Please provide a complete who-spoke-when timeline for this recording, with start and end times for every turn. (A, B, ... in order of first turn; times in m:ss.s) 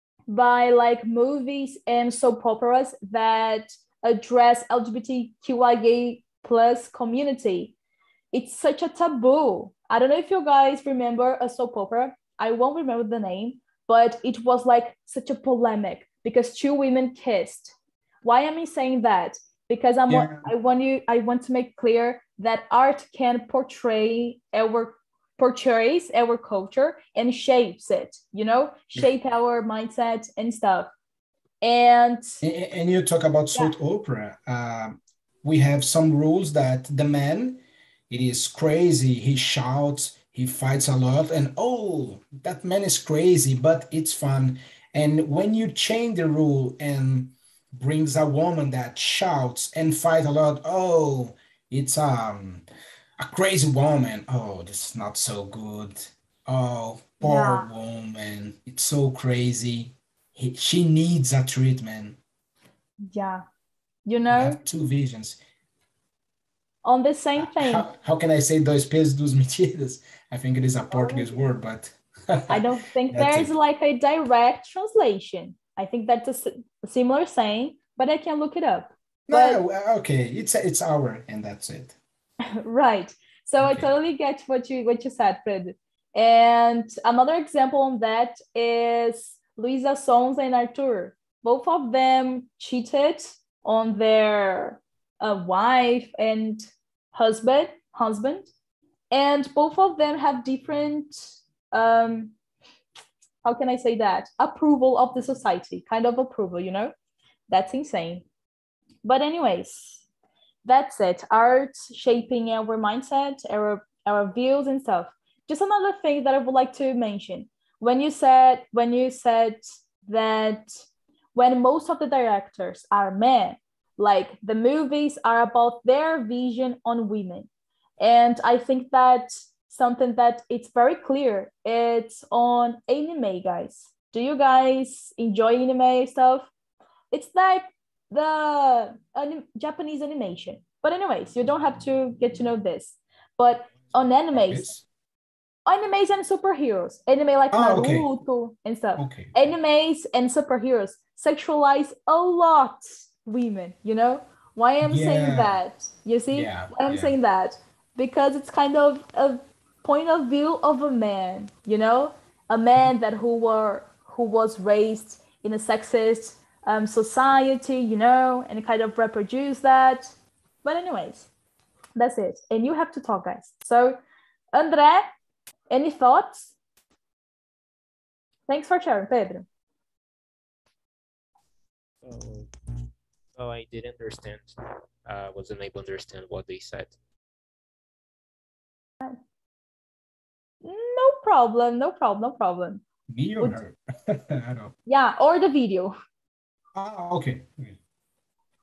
0:00.3-0:07.7 A
0:08.3-0:30.9 A
0:20.1-0:20.5 B
0:31.6-0:32.4 A
0:32.4-0:52.6 B
0:53.2-1:02.2 B
0:57.2-0:57.7 A
1:03.1-1:03.4 A
1:04.0-1:04.6 A
1:04.3-1:05.4 B
1:06.8-1:07.8 A
1:07.4-1:13.5 B
1:10.9-1:11.3 A
1:12.5-1:19.6 A
1:19.3-1:22.0 B
1:22.6-1:38.5 A
1:23.6-1:23.9 B
1:39.1-1:42.3 A
1:43.4-1:46.9 A
1:47.5-1:48.2 A
1:49.0-1:50.0 A
1:50.6-2:00.7 A
2:01.3-2:07.5 A
2:08.0-2:16.5 A
2:17.1-2:24.7 A
2:24.3-2:24.8 B
2:25.6-2:51.3 A
2:27.5-2:28.1 B
2:29.0-2:29.3 B
2:34.8-2:35.6 B
2:36.3-2:37.2 B
2:52.0-2:54.0 A
2:54.5-2:55.1 A
2:55.7-2:56.5 A
2:58.5-2:59.4 A
3:02.0-3:02.5 C
3:03.4-3:04.5 C
3:05.0-3:07.0 C
3:10.6-3:12.8 A
3:13.1-3:14.7 B
3:14.8-3:15.9 A
3:16.7-3:17.8 B